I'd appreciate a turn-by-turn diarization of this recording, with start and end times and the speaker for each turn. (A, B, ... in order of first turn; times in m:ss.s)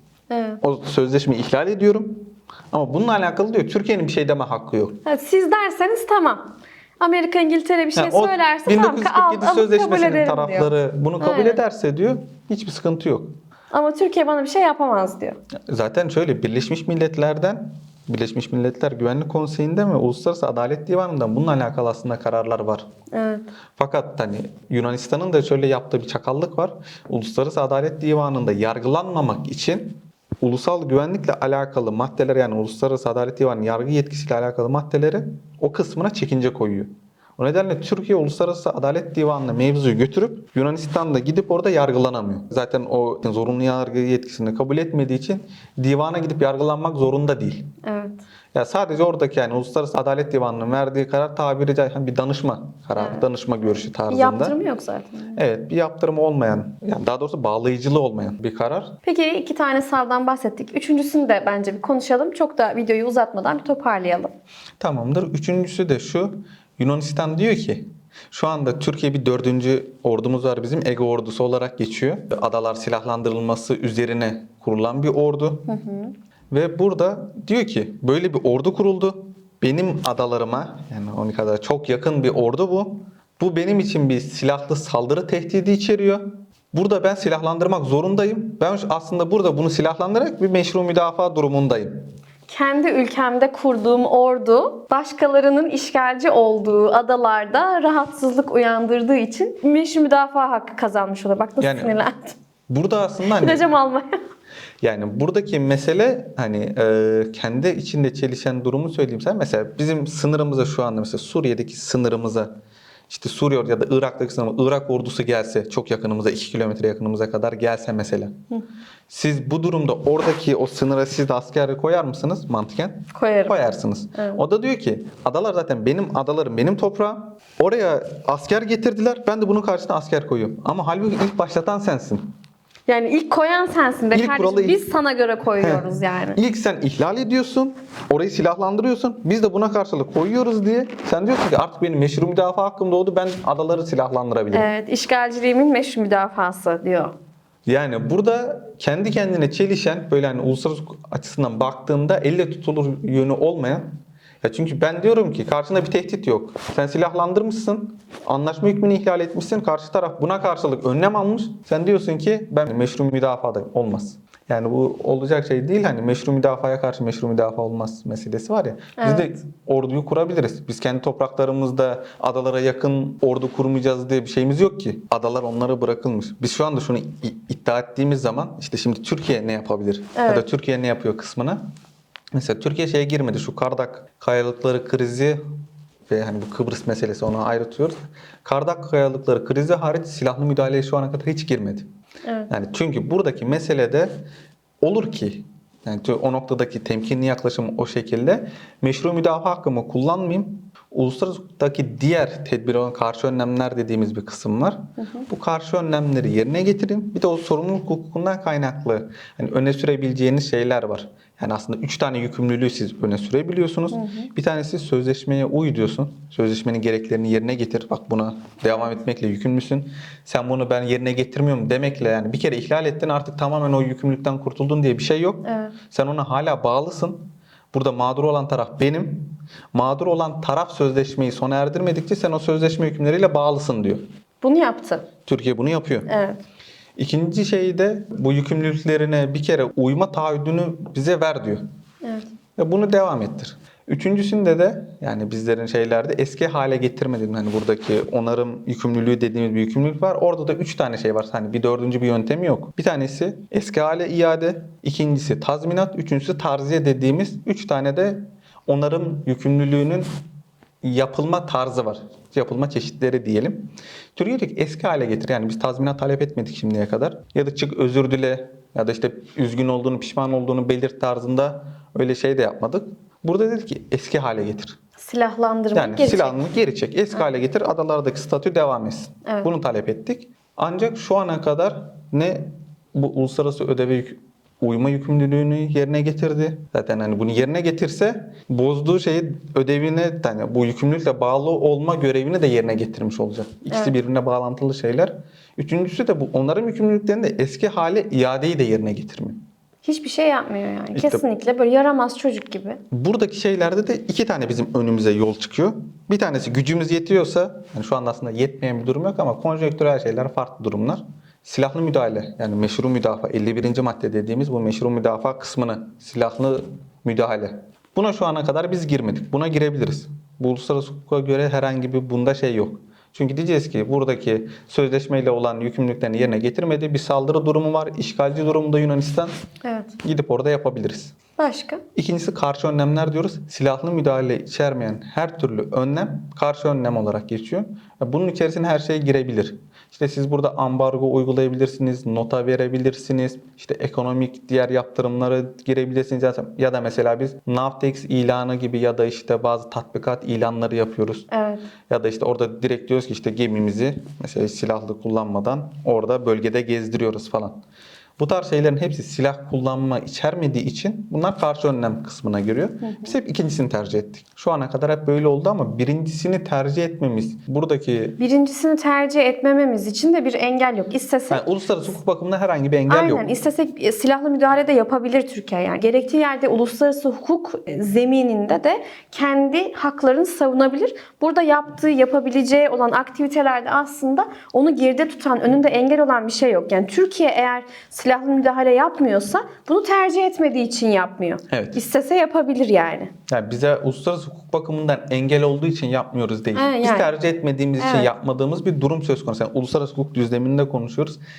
0:00.3-0:00.6 A
0:00.6-0:05.0 B
0:05.0-0:11.6 A
0:08.0-0:13.3 B
0:13.7-0:15.4 A
0:15.7-0:22.9 B
0:23.1-0:23.5 A
0:23.8-0:47.7 B
0:47.8-0:48.2 A
0:48.5-0:54.6 B
0:53.0-0:53.2 A
0:54.1-0:55.4 A
0:55.4-0:59.0 B
0:59.0-1:04.3 A
1:04.8-1:15.7 B
1:15.7-1:16.1 A
1:16.5-1:32.1 B
1:32.5-1:42.4 A
1:41.6-1:42.0 B
1:42.7-1:43.6 B
1:43.3-1:44.2 A
1:44.8-1:52.5 B
1:53.1-1:58.3 B
1:59.1-2:12.3 B
2:03.1-2:03.6 A
2:04.2-2:04.4 A
2:12.9-2:16.4 A
2:14.1-2:14.8 B
2:16.4-2:24.7 B
2:24.5-2:27.1 A
2:27.7-2:33.9 B
2:34.4-3:01.6 B
2:49.0-2:49.3 A
3:00.2-3:00.4 A
3:02.3-3:05.4 B
3:06.1-3:11.9 B
3:12.5-3:14.1 B
3:14.8-3:54.0 B
3:25.0-3:25.3 A
3:33.9-3:34.3 A
3:45.4-3:45.7 A
3:54.4-3:55.1 A
3:55.3-3:56.1 B
3:56.1-3:56.4 A
3:57.0-4:01.6 B
4:02.0-4:02.3 A
4:02.6-4:20.1 B
4:20.8-4:34.8 B
4:35.0-4:36.4 A
4:35.7-4:59.4 B
4:59.8-5:02.8 A
5:00.9-5:01.2 B
5:02.9-5:29.4 B
5:29.6-5:29.9 A
5:30.0-5:31.1 B
5:31.4-5:31.8 A
5:32.0-5:51.3 B
5:51.3-5:51.6 A
5:51.9-5:57.6 B
5:58.2-6:08.2 B
6:02.8-6:03.2 A
6:08.2-6:11.5 A
6:11.3-6:13.3 B
6:12.9-6:33.1 A
6:31.5-6:31.8 B
6:33.3-6:41.2 B
6:36.6-6:37.1 A
6:37.8-6:38.1 A